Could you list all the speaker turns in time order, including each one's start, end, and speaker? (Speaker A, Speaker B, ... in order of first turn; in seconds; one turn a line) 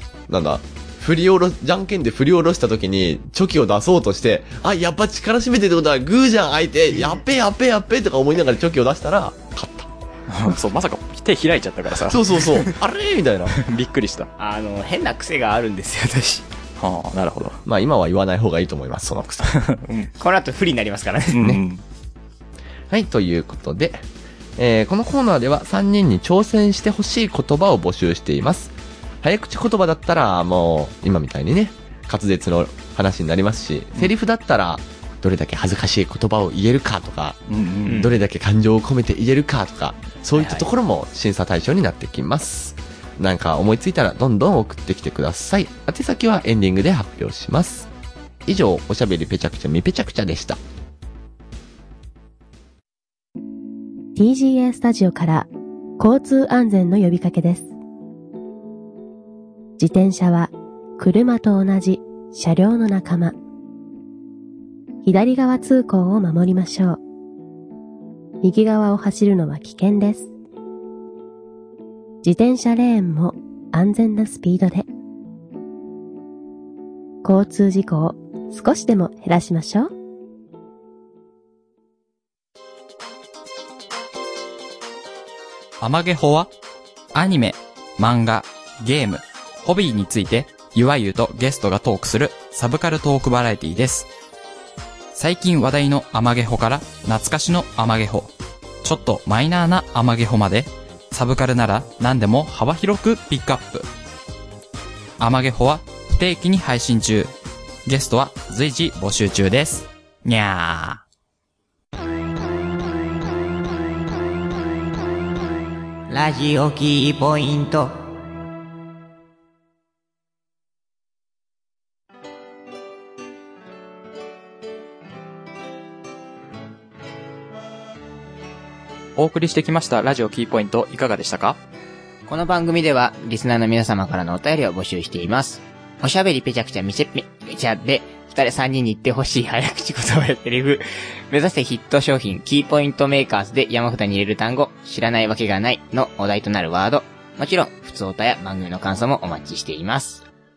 Speaker A: 0.3-9.9
Speaker B: 10.3-12.2
Speaker A: 12.1-13.6
Speaker B: 13.6-14.3
Speaker C: 14.4-16.5
Speaker B: 16.8-17.6
Speaker A: 17.6-19.6
Speaker B: 19.4-20.1
Speaker C: 20.2-21.5
Speaker B: 21.3-21.8
Speaker A: 22.9-24.1
Speaker A: 24.6-47.9
Speaker B: 37.5-38.0
Speaker C: 37.9-38.1
Speaker C: 40.3-40.6
Speaker A: 48.5-50.6
Speaker D: 54.2-57.7
Speaker D: 59.8-63.4
Speaker D: 65.0-67.0
Speaker D: 68.4-70.3
Speaker D: 72.2-74.9
Speaker D: 77.2-79.9
Speaker B: 85.8-86.5
Speaker B: 87.1-94.1
Speaker B: 95.1-98.3
Speaker B: 98.8-103.9
Speaker B: 105.2-107.3
Speaker B: 107.9-109.9
Speaker C: 110.2-111.0
Speaker C: 116.1-118.1
Speaker B: 129.2-131.6
Speaker C: 132.3-150.2